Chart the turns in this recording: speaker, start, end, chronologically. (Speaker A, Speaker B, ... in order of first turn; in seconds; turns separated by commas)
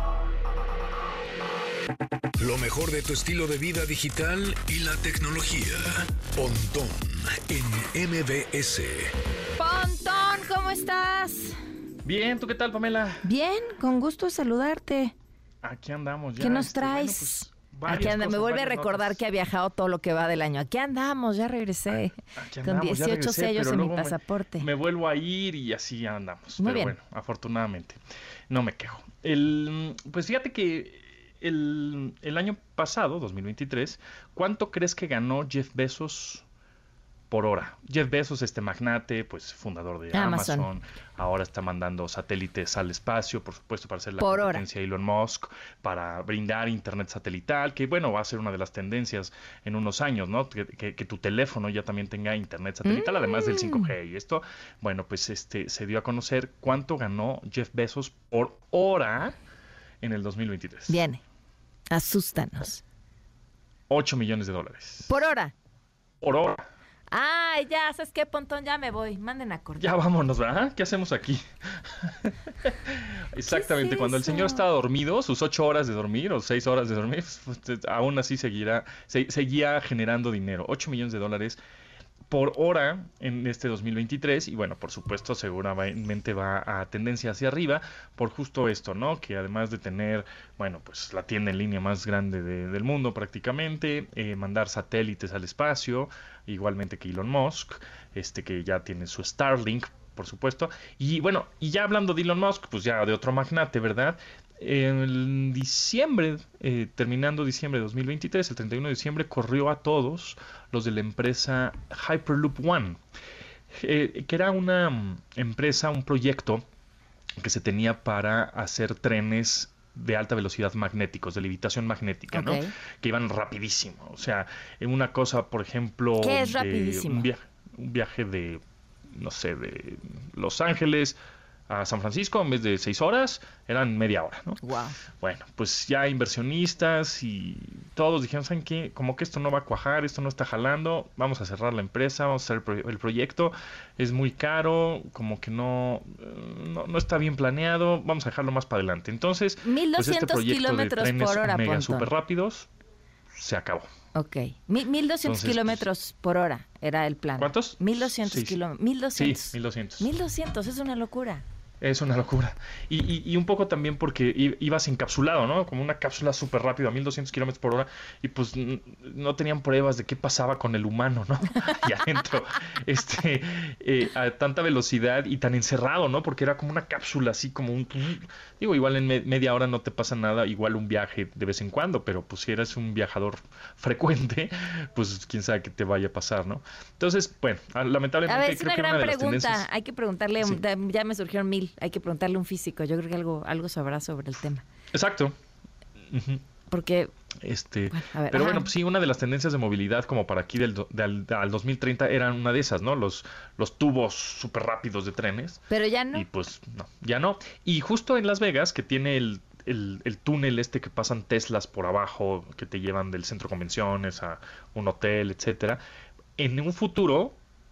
Speaker A: 2.4-9.1, Speaker B: 9.6-11.6, Speaker C: 12.0-13.2, Speaker B: 13.2-15.1, Speaker C: 15.6-19.2, Speaker B: 16.4-24.7, Speaker C: 22.4-28.0, Speaker B: 26.6-26.9, Speaker C: 28.5-36.4, Speaker C: 37.3-59.3, Speaker B: 40.1-40.7, Speaker B: 44.2-44.6, Speaker B: 52.8-53.9, Speaker C: 60.0-61.0, Speaker B: 60.9-61.2, Speaker B: 61.9-62.8, Speaker C: 63.9-65.2, Speaker B: 65.1-65.5, Speaker C: 66.2-66.6, Speaker B: 67.1-69.9, Speaker C: 69.8-81.6, Speaker B: 73.5-74.6, Speaker C: 82.3-113.0, Speaker C: 113.8-116.6, Speaker C: 117.4-131.2, Speaker B: 122.3-122.7, Speaker B: 126.2-127.3, Speaker C: 131.7-134.6, Speaker B: 134.6-135.0, Speaker C: 135.2-152.7, Speaker B: 149.6-152.1, Speaker C: 153.3-153.9, Speaker B: 154.1-161.4, Speaker C: 155.2-155.8, Speaker C: 157.4-158.6, Speaker C: 159.1-160.1, Speaker C: 161.8-189.7, Speaker B: 188.2-194.6, Speaker C: 194.9-195.3, Speaker C: 196.1-196.4, Speaker B: 196.7-197.1, Speaker C: 197.4-205.6, Speaker B: 197.9-198.7, Speaker B: 205.7-206.3, Speaker C: 206.1-215.8, Speaker C: 216.4-217.3